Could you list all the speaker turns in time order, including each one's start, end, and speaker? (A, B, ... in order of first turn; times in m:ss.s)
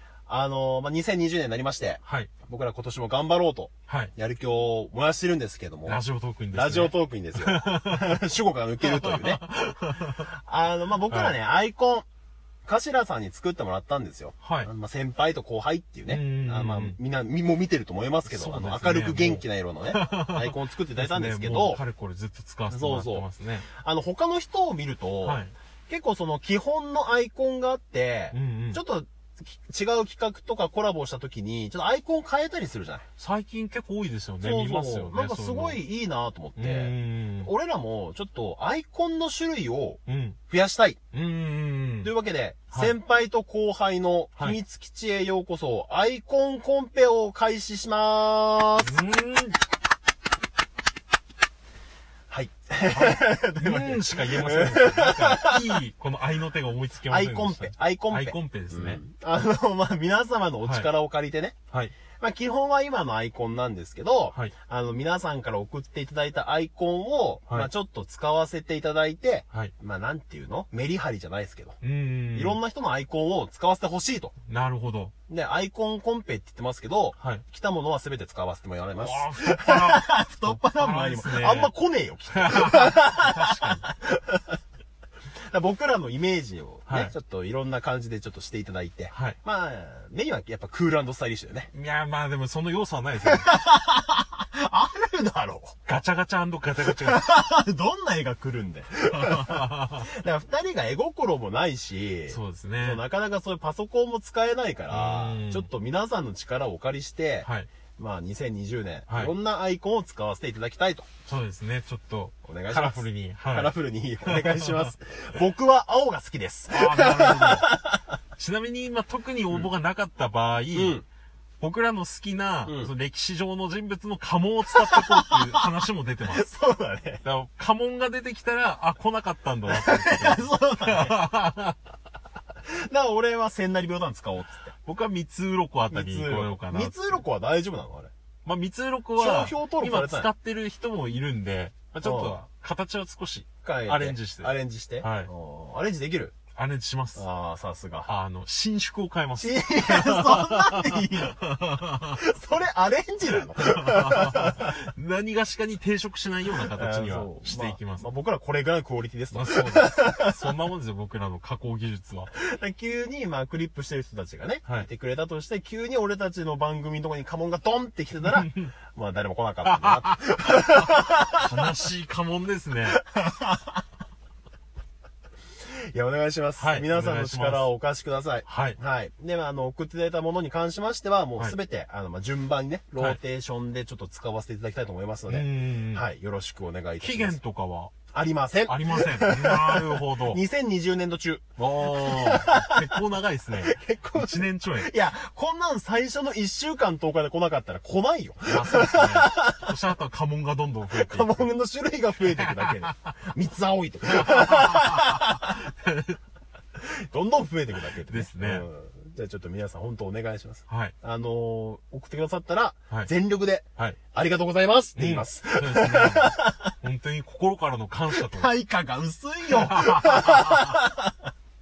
0:00.3-0:06.0 A
0:02.0-0:02.3 B
0:03.9-0:04.1 B
0:05.9-0:08.2 B
0:06.5-0:09.4 A
0:08.8-0:10.3 B
0:10.3-0:12.0 A
0:11.1-0:11.4 B
0:12.7-0:21.8 A
0:14.4-0:14.7 B
0:16.1-0:17.0 B
0:18.3-0:23.7 B
0:22.7-0:33.0 A
0:25.2-0:25.5 B
0:28.3-0:28.8 B
0:33.2-0:35.8 B
0:34.4-0:41.0 A
0:36.6-0:37.5 B
0:40.0-0:40.4 B
0:41.1-0:42.1 B
0:42.0-0:49.0 A
0:48.8-0:49.6 B
0:52.3-0:55.8 A
0:52.9-0:59.0 B
0:57.1-1:01.6 A
1:02.1-1:11.8 A
1:11.8-1:12.6 B
1:12.3-1:14.3 A
1:14.5-1:15.1 B
1:15.3-1:24.6 A
1:17.2-1:17.4 B
1:19.0-1:21.7 B
1:22.3-1:23.8 B
1:25.5-1:31.7 A
1:26.9-1:27.1 B
1:31.7-1:33.5 B
1:33.2-1:35.8 A
1:35.9-1:37.2 B
1:36.8-1:51.1 A
1:39.1-1:40.0 B
1:42.3-1:43.0 B
1:44.9-1:45.7 B
1:47.4-1:47.7 B
1:51.2-1:54.9 B
1:52.4-1:58.0 A
1:56.7-1:57.6 B
1:58.4-2:01.0 B
2:00.7-2:01.0 A
2:01.6-2:06.5 B
2:04.7-2:05.7 A
2:06.3-2:07.2 A
2:07.2-2:11.8 B
2:09.7-2:11.3 A
2:12.7-2:14.7 A
2:14.8-2:17.0 B
2:15.9-2:18.1 A
2:18.4-2:25.3 B
2:19.2-2:20.3 A
2:22.0-2:22.4 A
2:23.6-2:26.3 A
2:26.6-2:27.2 B
2:27.2-2:28.1 A
2:28.0-2:32.2 B
2:29.4-2:34.8 A
2:33.5-2:38.1 B
2:36.6-2:40.5 A
2:39.3-2:42.3 B
2:42.3-2:51.6 A
2:48.2-2:48.7 B
2:49.6-2:53.0 B
2:52.9-2:53.8 A
2:55.7-3:07.4 A
2:56.6-2:57.7 B
2:58.5-2:58.8 B
3:05.3-3:06.0 B
3:07.0-3:07.9 B
3:08.1-3:13.0 A
3:08.7-3:10.4 B
3:11.6-3:14.9 B
3:13.5-3:19.7 A
3:18.5-3:21.5 B
3:20.9-3:25.7 A
3:22.3-3:22.9 B
3:24.1-3:26.2 B
3:26.8-3:36.7 A
3:28.1-3:28.7 B
3:30.7-3:30.9 B
3:35.0-3:38.5 B
3:38.1-3:41.2 A
3:39.5-3:40.8 B